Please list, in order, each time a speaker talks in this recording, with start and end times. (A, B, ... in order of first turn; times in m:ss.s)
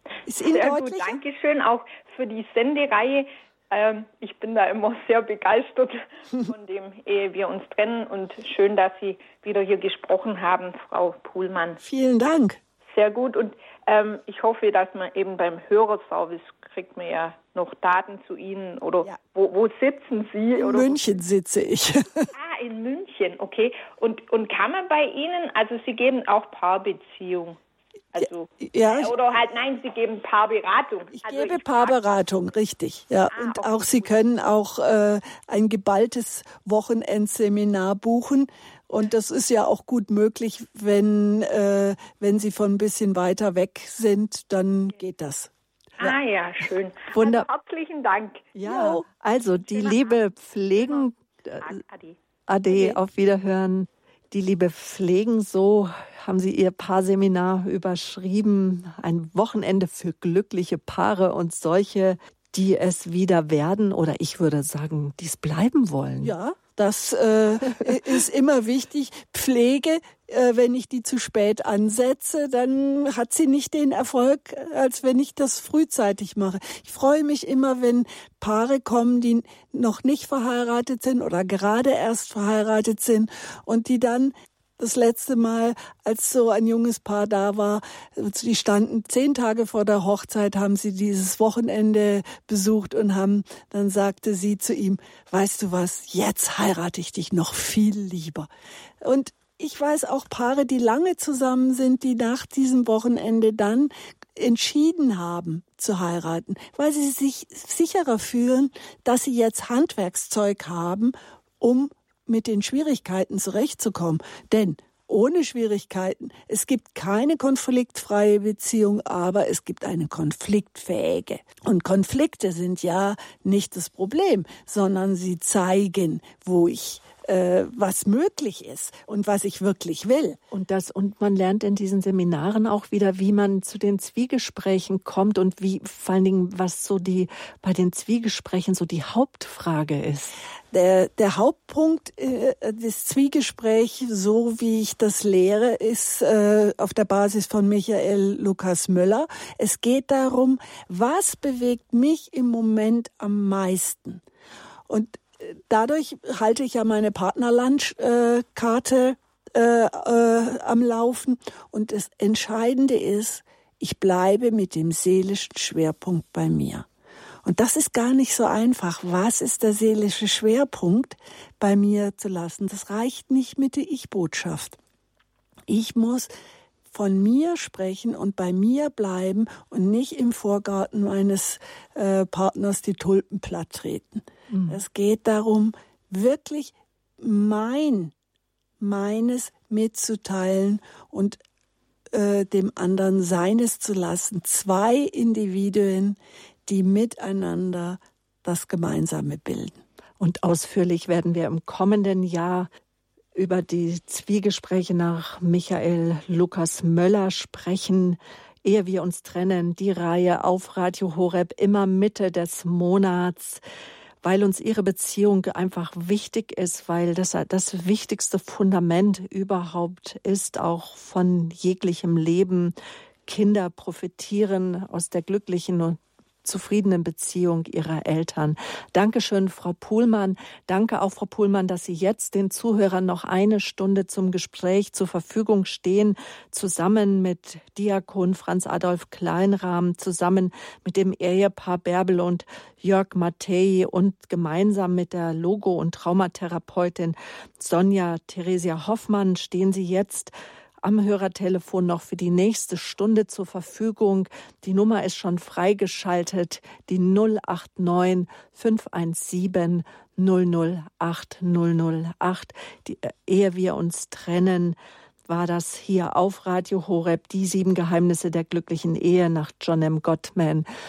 0:00.3-0:01.2 A
0:00.4-0:11.8 B
0:11.8-0:12.6 A
0:12.9-0:21.2 B
0:20.6-0:22.3 A
0:22.3-0:27.6 B
0:28.1-0:32.0 B
0:28.6-0:29.1 A
0:31.1-0:45.5 A
0:33.3-0:34.1 B
0:46.0-0:48.5 B
0:47.1-0:47.5 C
0:48.6-0:49.0 A
0:48.6-0:51.8 C
0:49.7-0:50.2 B
0:50.8-0:51.1 B
0:51.6-0:52.2 B
0:52.5-1:06.4 C
1:06.2-1:38.5 A
1:39.0-2:10.4 A
2:10.5-2:20.4 C
2:20.7-2:34.2 A
2:34.9-2:46.9 A
2:47.4-2:54.8 A
2:55.7-2:56.3 A
2:56.9-3:08.1 A
3:04.5-3:04.8 C
3:08.8-3:11.4 A
3:12.1-3:19.8 A
3:20.2-3:22.7 C
3:23.4-3:33.6 C
3:34.2-3:42.7 C
3:43.3-4:10.3 C
4:10.8-4:24.8 C
4:25.3-4:30.7 C